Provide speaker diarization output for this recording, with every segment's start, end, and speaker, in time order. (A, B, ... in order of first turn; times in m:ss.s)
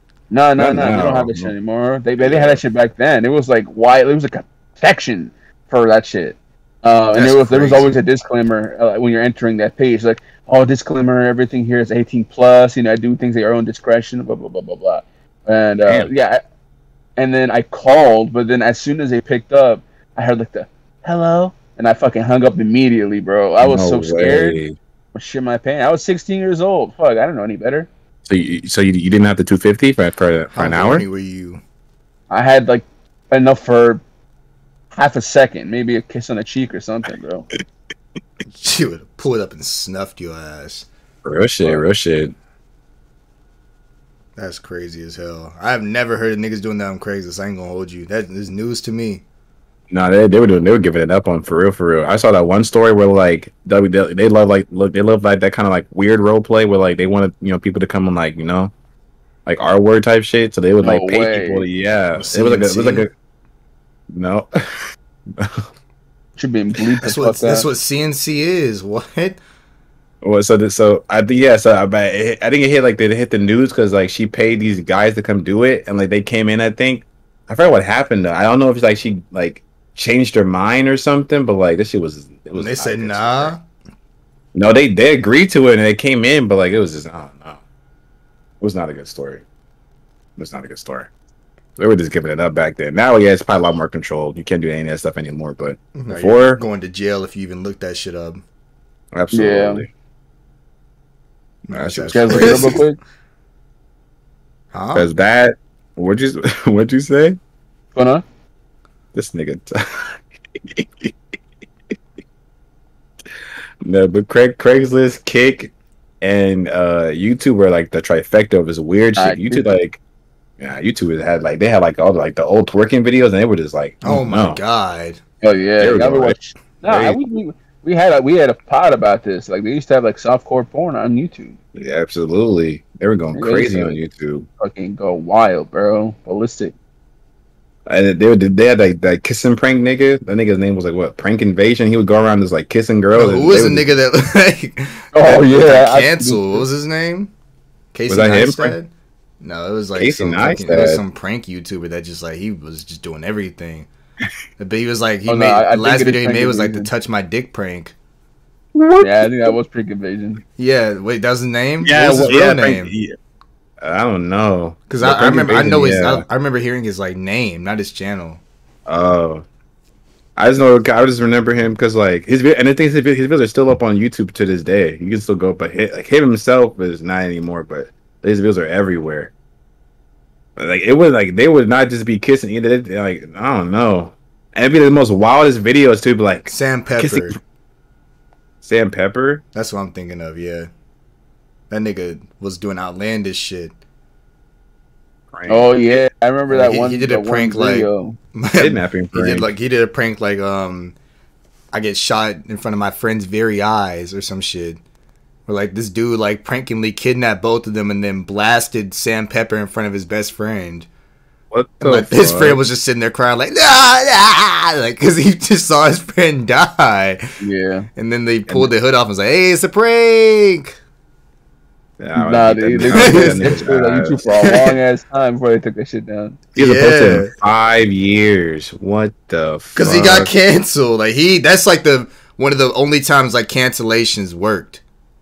0:00.3-0:16.4 A
0:00.6-0:01.5 B
0:02.2-0:02.6 B
0:07.2-0:07.9 B
0:17.2-0:24.6 A
0:23.6-0:24.8 B
0:25.1-0:27.9 A
0:28.2-0:31.0 B
0:30.5-0:31.6 C
0:32.3-0:34.0 A
0:34.9-0:37.5 A
0:38.5-0:40.9 C
0:41.2-0:42.3 B
0:44.4-0:49.2 C
0:49.9-0:58.7 B
0:59.4-1:03.1 B
1:00.8-1:01.6 A
1:02.2-1:03.1 C
1:04.1-1:04.8 B
1:05.4-1:05.7 B
1:06.4-1:07.6 A
1:07.0-1:09.4 C
1:10.2-1:23.5 B
1:22.6-1:23.6 C
1:24.5-1:27.6 B
1:28.6-1:29.4 B
1:30.4-1:31.1 B
1:31.8-1:36.6 B
1:35.9-1:38.4 C
1:39.1-1:39.9 B
1:39.3-1:39.8 A
1:41.7-1:42.8 C
1:41.7-1:42.8 B
1:42.1-1:43.0 A
1:44.7-1:45.1 C
1:44.9-1:47.4 B
1:47.9-1:48.2 A
1:49.1-1:51.1 B
1:53.8-2:00.0 B
1:59.2-1:59.6 A
2:00.6-2:04.6 B
2:04.0-2:05.2 C
2:05.4-2:11.6 A
2:05.8-2:07.2 B
2:11.7-2:14.5 B
2:13.4-2:14.0 A
2:14.6-2:16.7 A
2:17.9-2:23.9 B
2:23.1-2:27.3 C
2:25.1-2:26.6 A
2:27.9-2:28.9 C
2:28.1-2:28.8 B
2:29.4-2:33.9 C
2:30.0-2:31.0 B
2:34.6-2:37.9 C
2:35.3-2:36.9 A
2:38.7-2:39.6 B
2:39.0-2:40.4 A
2:40.6-2:42.9 C
2:41.8-2:43.1 B
2:43.8-2:46.2 B
2:44.9-2:48.4 C
2:48.8-2:49.4 B
2:50.4-2:59.3 B
3:00.6-3:07.3 B
3:06.5-3:07.4 C
3:08.6-3:09.4 B
3:09.5-3:10.7 C
3:11.7-3:13.7 C
3:15.3-3:15.7 B
3:15.5-3:18.2 A
3:16.5-3:21.0 C
3:18.6-3:19.5 B
3:21.7-3:24.8 C
3:25.5-3:30.9 C
3:31.5-3:32.6 B
3:31.8-3:37.3 C
3:37.4-3:37.9 A
3:38.0-3:40.8 C
3:42.0-3:44.2 B
3:42.2-3:46.4 A
3:42.9-3:43.6 C
3:44.3-3:44.7 C
3:46.5-3:50.3 B
3:46.6-3:47.3 C
3:49.8-3:54.8 C